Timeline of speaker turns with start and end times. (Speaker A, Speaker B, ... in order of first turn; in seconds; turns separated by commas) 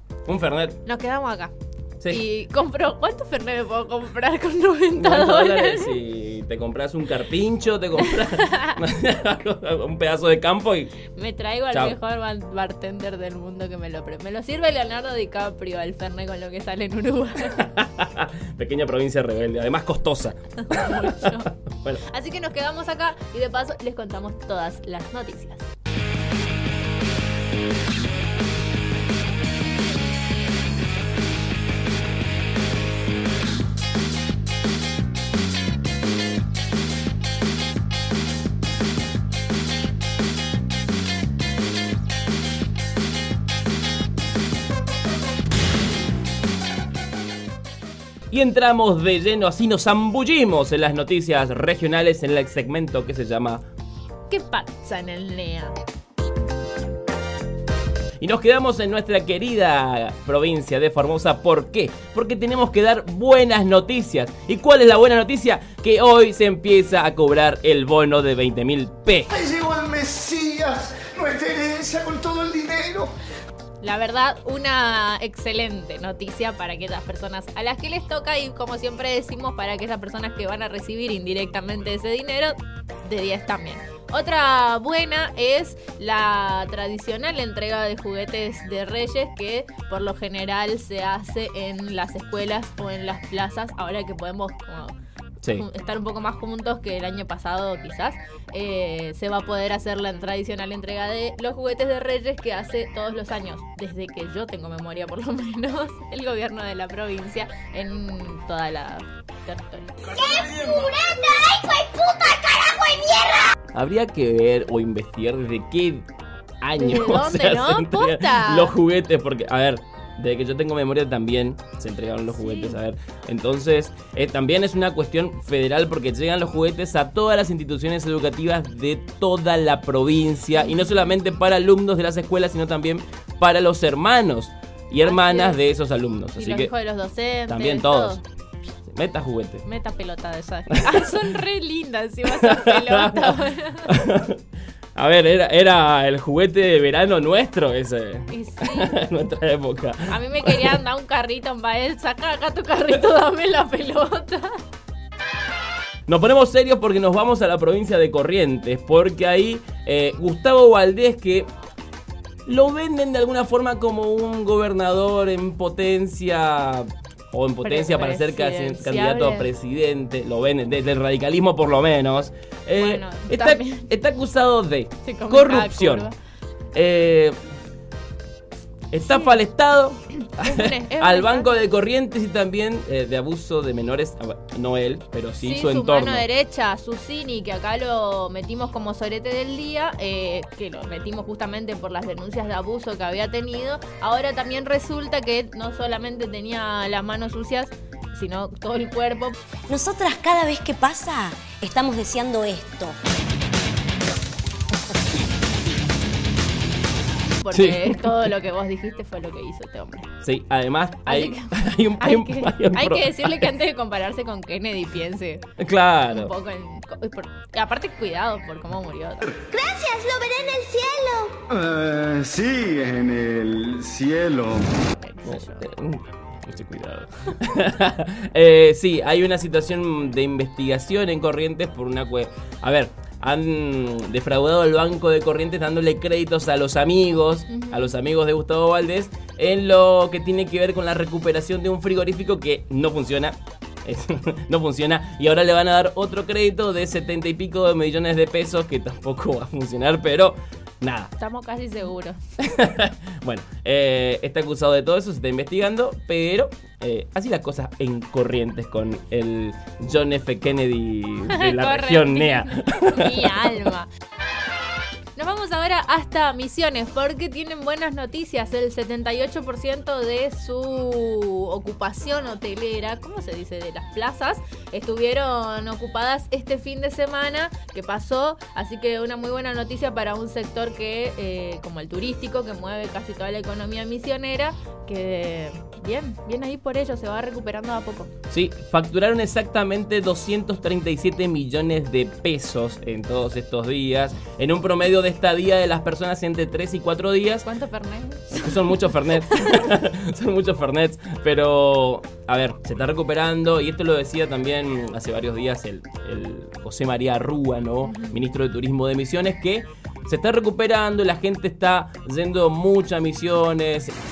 Speaker A: 0.3-0.8, Speaker B: 0.9-1.5, Speaker B: 2.1-6.0, Speaker A: 4.9-10.9, Speaker B: 8.1-8.8, Speaker B: 11.1-17.6, Speaker A: 17.5-21.2, Speaker B: 20.6-25.7, Speaker A: 48.3-53.6, Speaker B: 54.3-55.8, Speaker A: 58.2-69.3, Speaker C: 69.3-73.1, Speaker B: 73.8-95.0, Speaker B: 95.5-110.2, Speaker D: 110.0-113.5, Speaker A: 113.7-116.1, Speaker A: 116.6-136.7, Speaker B: 116.8-118.7, Speaker B: 122.4-122.8, Speaker B: 130.6-131.1, Speaker B: 135.0-135.6, Speaker B: 136.4-138.2, Speaker A: 137.5-138.2, Speaker A: 138.9-139.6, Speaker B: 139.7-143.9, Speaker A: 140.7-141.1, Speaker A: 142.4-143.3, Speaker A: 143.9-144.4, Speaker A: 144.9-150.8, Speaker B: 148.3-149.0, Speaker B: 150.1-154.6, Speaker A: 156.1-161.5, Speaker A: 162.5-176.1, Speaker B: 167.6-169.5, Speaker B: 172.8-173.9, Speaker B: 175.1-176.1, Speaker A: 176.7-177.4, Speaker A: 178.9-186.2, Speaker B: 179.0-179.4, Speaker B: 180.3-181.6, Speaker B: 185.4-199.3, Speaker E: 199.7-203.0, Speaker B: 207.4-210.1, Speaker A: 207.5-208.3, Speaker A: 210.2-213.5, Speaker B: 211.1-215.4, Speaker A: 215.6-216.3, Speaker B: 216.1-219.2, Speaker D: 219.5-221.3, Speaker C: 221.5-224.7, Speaker B: 225.0-225.7, Speaker A: 225.3-251.1, Speaker B: 237.5-237.9, Speaker B: 251.2-252.2, Speaker A: 252.4-263.5, Speaker B: 261.3-263.9, Speaker B: 265.2-288.1, Speaker A: 288.3-297.5, Speaker B: 297.4-299.6, Speaker A: 298.3-313.9, Speaker B: 307.9-308.2